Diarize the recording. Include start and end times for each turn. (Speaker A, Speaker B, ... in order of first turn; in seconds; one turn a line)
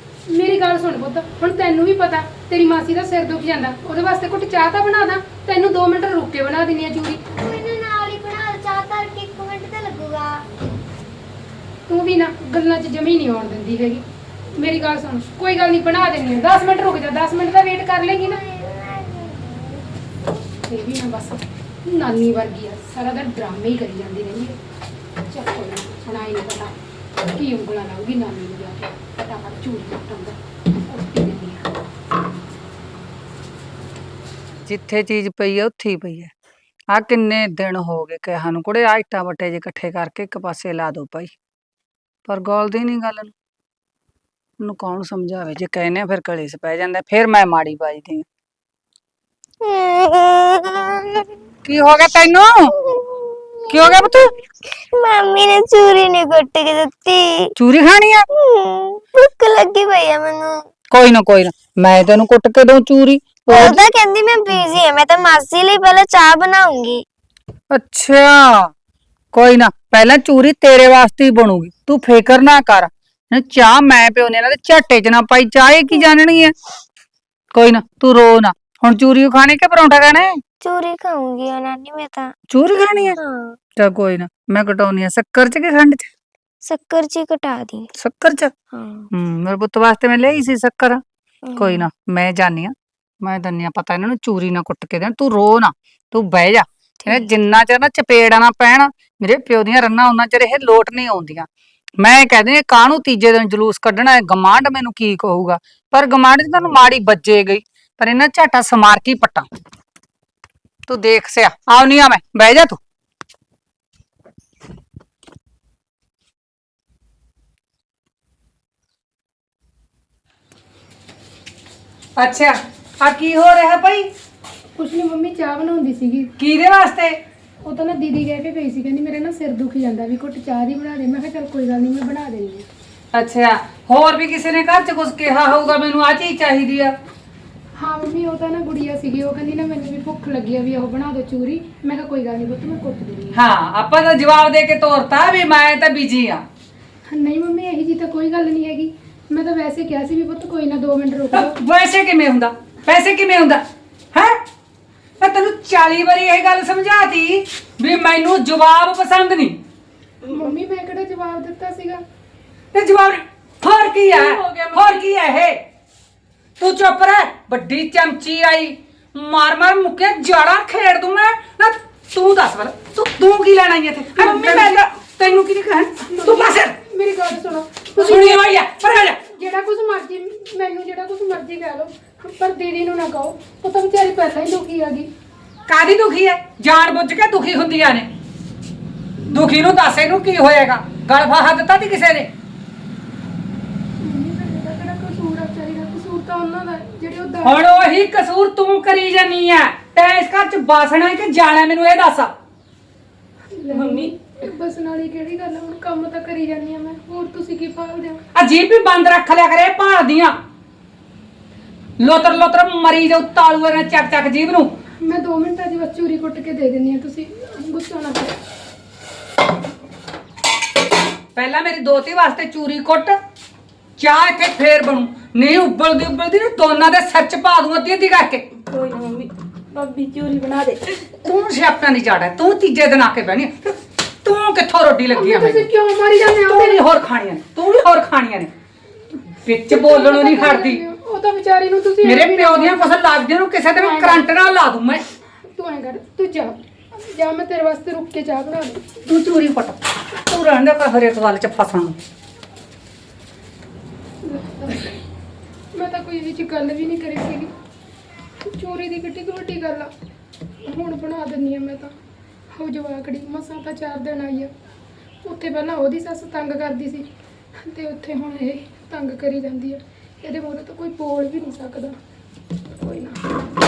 Speaker A: 0.3-7.2
Speaker B: 7.3-10.4
Speaker A: 11.9-14.0
Speaker A: 14.6-18.4
Speaker B: 18.0-19.8
Speaker A: 20.7-24.6
Speaker A: 25.3-26.8
Speaker A: 27.4-31.7
Speaker C: 34.7-36.3
Speaker C: 36.9-41.3
Speaker C: 42.3-43.3
Speaker C: 44.6-48.2
Speaker B: 49.6-51.3
Speaker C: 51.6-52.7
Speaker B: 52.8-54.4
Speaker C: 53.7-54.3
Speaker B: 54.9-57.5
Speaker C: 57.6-58.3
Speaker B: 58.3-60.6
Speaker C: 60.9-63.8
Speaker B: 63.5-67.0
Speaker C: 67.7-68.7
Speaker C: 69.3-76.5
Speaker C: 77.5-80.4
Speaker B: 80.6-82.3
Speaker C: 82.5-83.2
Speaker B: 83.2-83.6
Speaker C: 83.8-86.1
Speaker B: 86.6-87.9
Speaker C: 88.0-88.5
Speaker B: 88.7-89.1
Speaker C: 89.1-91.0
Speaker B: 91.4-91.9
Speaker C: 91.6-101.5
Speaker B: 97.0-97.3
Speaker C: 102.0-109.5
Speaker C: 110.9-112.8
Speaker C: 122.2-124.1
Speaker A: 124.8-126.3
Speaker C: 126.4-127.2
Speaker A: 127.6-132.7
Speaker C: 133.1-136.9
Speaker A: 137.8-143.4
Speaker C: 143.3-146.4
Speaker A: 147.1-151.6
Speaker C: 151.3-154.4
Speaker C: 155.2-159.6
Speaker D: 160.2-160.6
Speaker A: 160.3-162.0
Speaker C: 162.7-165.6
Speaker D: 164.1-165.0
Speaker C: 166.6-176.8
Speaker D: 174.2-174.8
Speaker A: 176.0-178.4
Speaker C: 178.0-179.2
Speaker A: 179.3-185.1
Speaker C: 185.7-188.1
Speaker C: 189.3-192.3
Speaker A: 194.0-197.6
Speaker C: 197.4-202.3
Speaker A: 203.5-208.2
Speaker D: 203.7-204.1
Speaker C: 208.3-210.4
Speaker C: 212.0-214.7
Speaker A: 215.0-218.4
Speaker C: 221.4-223.2
Speaker C: 224.0-228.4
Speaker D: 228.6-231.1
Speaker C: 231.2-233.6
Speaker C: 234.2-235.7
Speaker A: 235.1-236.8
Speaker C: 236.5-238.5
Speaker C: 239.4-240.8
Speaker A: 239.7-242.9
Speaker C: 242.0-245.0
Speaker A: 243.8-244.3
Speaker A: 245.5-248.9
Speaker C: 249.1-252.0
Speaker A: 254.2-255.0
Speaker A: 255.7-257.5
Speaker A: 258.4-259.9
Speaker A: 260.6-261.9
Speaker A: 262.5-264.5
Speaker A: 265.2-267.1
Speaker A: 267.6-272.0
Speaker A: 272.8-273.2